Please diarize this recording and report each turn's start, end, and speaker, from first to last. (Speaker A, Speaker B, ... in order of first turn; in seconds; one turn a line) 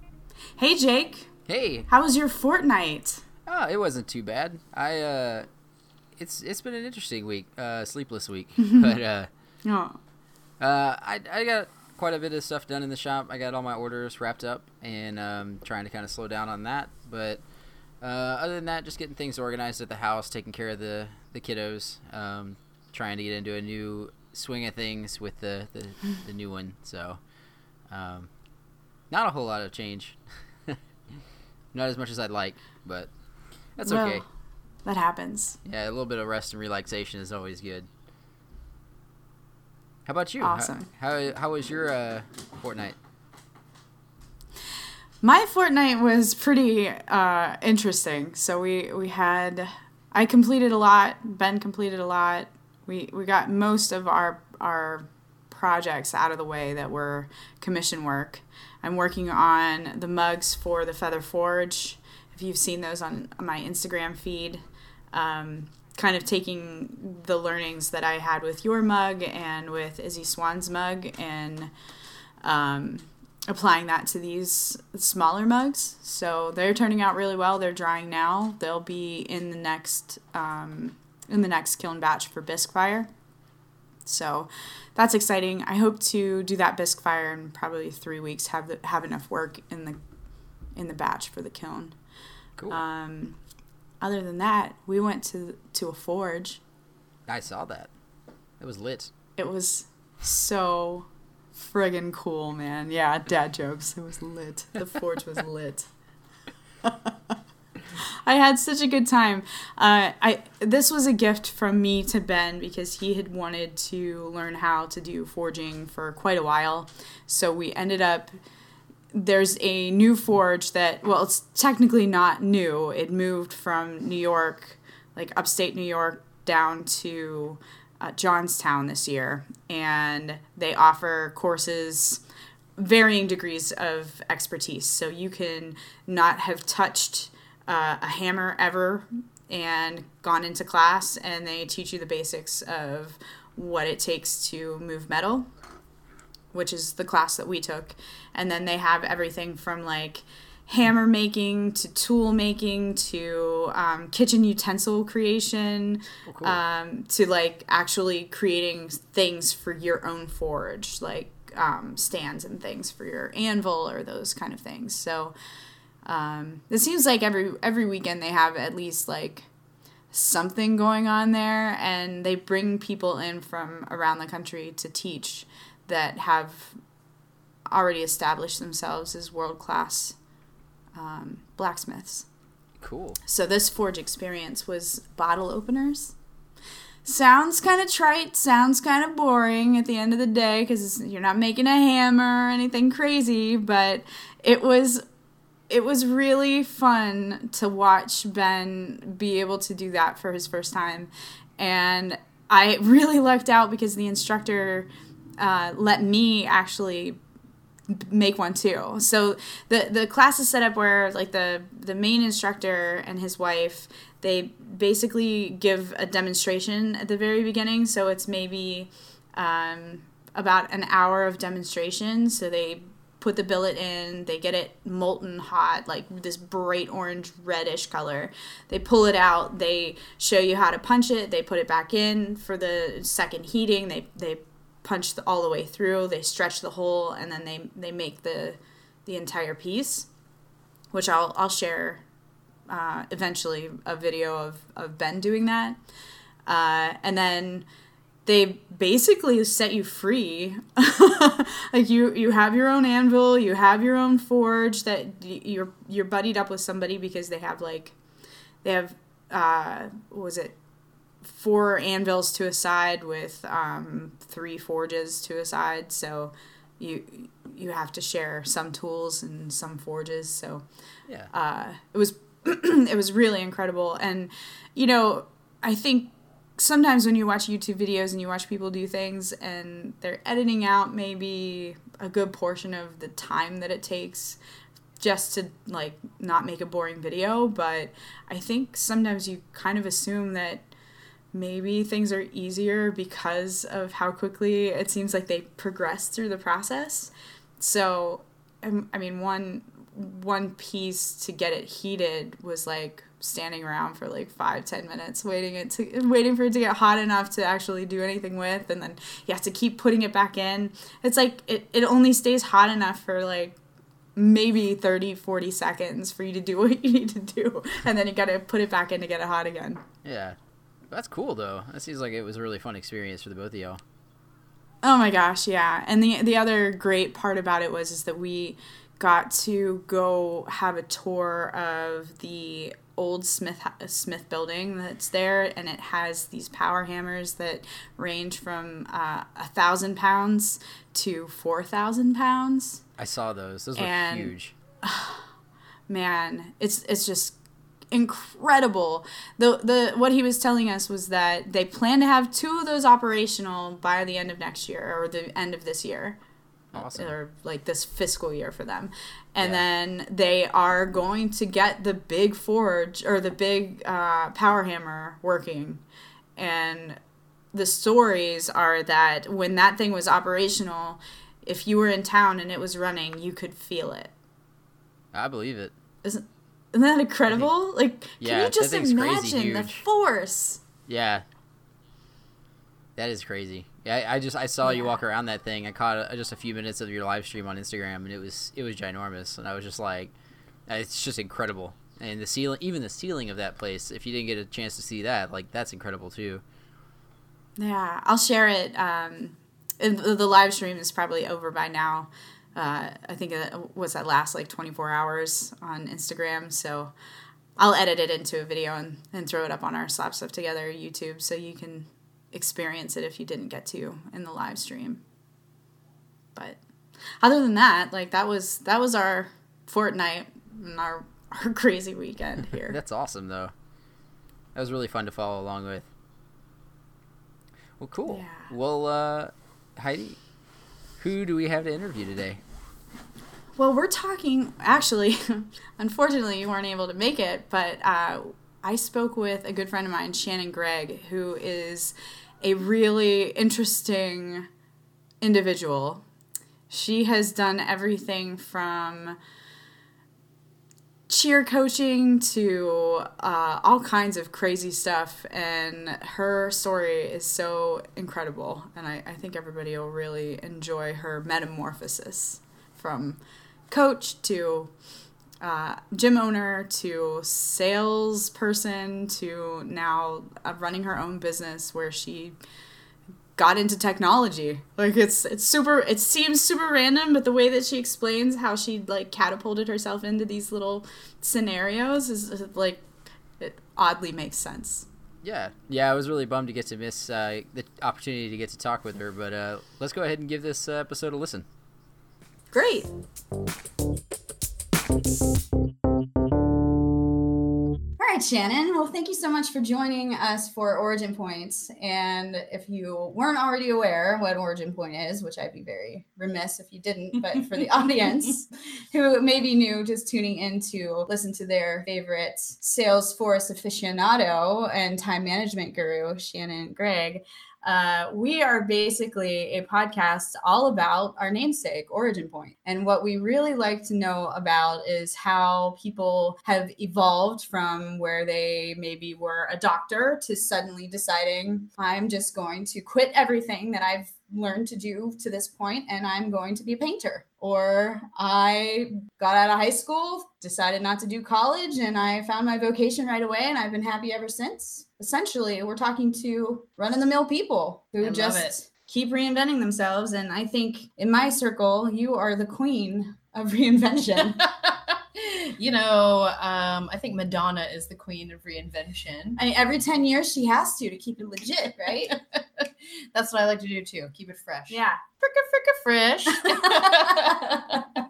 Speaker A: 0.6-1.3
Speaker B: 1.5-1.9
Speaker A: 1.9-3.2
Speaker B: 3.5-5.5
Speaker B: 6.2-9.3
Speaker A: 8.6-8.9
Speaker A: 9.6-10.0
Speaker B: 10.6-17.4
Speaker B: 18.0-27.2
Speaker B: 27.9-28.3
Speaker B: 29.1-30.8
Speaker B: 31.7-33.1
Speaker B: 33.8-34.2
Speaker A: 33.8-34.2
Speaker A: 34.8-35.6
Speaker B: 35.6-37.9
Speaker B: 40.0-43.0
Speaker A: 40.4-40.9
Speaker A: 45.2-71.7
Speaker A: 72.4-83.1
Speaker A: 84.0-90.0
Speaker A: 90.7-91.9
Speaker A: 92.7-93.4
Speaker A: 94.0-96.6
Speaker B: 97.3-97.9
Speaker B: 98.6-99.1
Speaker A: 99.4-105.9
Speaker A: 106.8-107.1
Speaker A: 108.0-118.4
Speaker A: 119.1-132.2
Speaker A: 132.8-145.5
Speaker A: 146.5-165.3
Speaker B: 156.3-156.6
Speaker A: 166.0-169.5
Speaker A: 170.1-176.8
Speaker A: 177.7-180.2
Speaker A: 180.9-182.2
Speaker B: 182.8-183.2
Speaker A: 183.2-186.1
Speaker A: 187.0-195.0
Speaker A: 195.7-207.2
Speaker A: 207.9-240.1
Speaker A: 240.9-242.0
Speaker A: 242.7-245.8
Speaker A: 246.4-247.7
Speaker A: 248.2-258.0
Speaker A: 258.6-260.6
Speaker A: 261.2-270.6
Speaker A: 271.3-284.4
Speaker A: 285.0-290.7
Speaker A: 291.3-313.6
Speaker A: 314.1-319.8
Speaker B: 320.0-320.4
Speaker B: 320.9-323.8
Speaker A: 324.8-342.8
Speaker B: 343.0-344.5
Speaker A: 343.8-345.3
Speaker A: 345.9-347.4
Speaker A: 347.9-356.2
Speaker B: 356.7-357.1
Speaker A: 356.8-365.8
Speaker A: 366.4-367.0
Speaker A: 367.5-374.1
Speaker B: 375.1-375.7
Speaker A: 376.0-380.6
Speaker B: 378.2-379.8
Speaker B: 380.9-381.2
Speaker B: 383.0-390.1
Speaker A: 384.6-384.9
Speaker B: 390.7-396.4
Speaker A: 397.6-406.9
Speaker A: 407.6-415.0
Speaker A: 417.2-422.8
Speaker B: 422.6-423.5
Speaker B: 424.5-425.9
Speaker B: 427.8-430.2
Speaker A: 428.1-428.5
Speaker B: 431.0-432.4
Speaker A: 433.6-444.5
Speaker A: 445.2-446.0
Speaker A: 446.7-449.2
Speaker A: 451.1-464.7
Speaker A: 465.4-472.4
Speaker A: 473.4-484.9
Speaker B: 485.2-491.4
Speaker A: 492.5-492.9
Speaker A: 498.0-554.4
Speaker C: 548.0-548.5
Speaker C: 554.4-559.4
Speaker A: 559.4-562.2
Speaker C: 562.1-568.0
Speaker A: 564.7-565.0
Speaker A: 566.3-567.3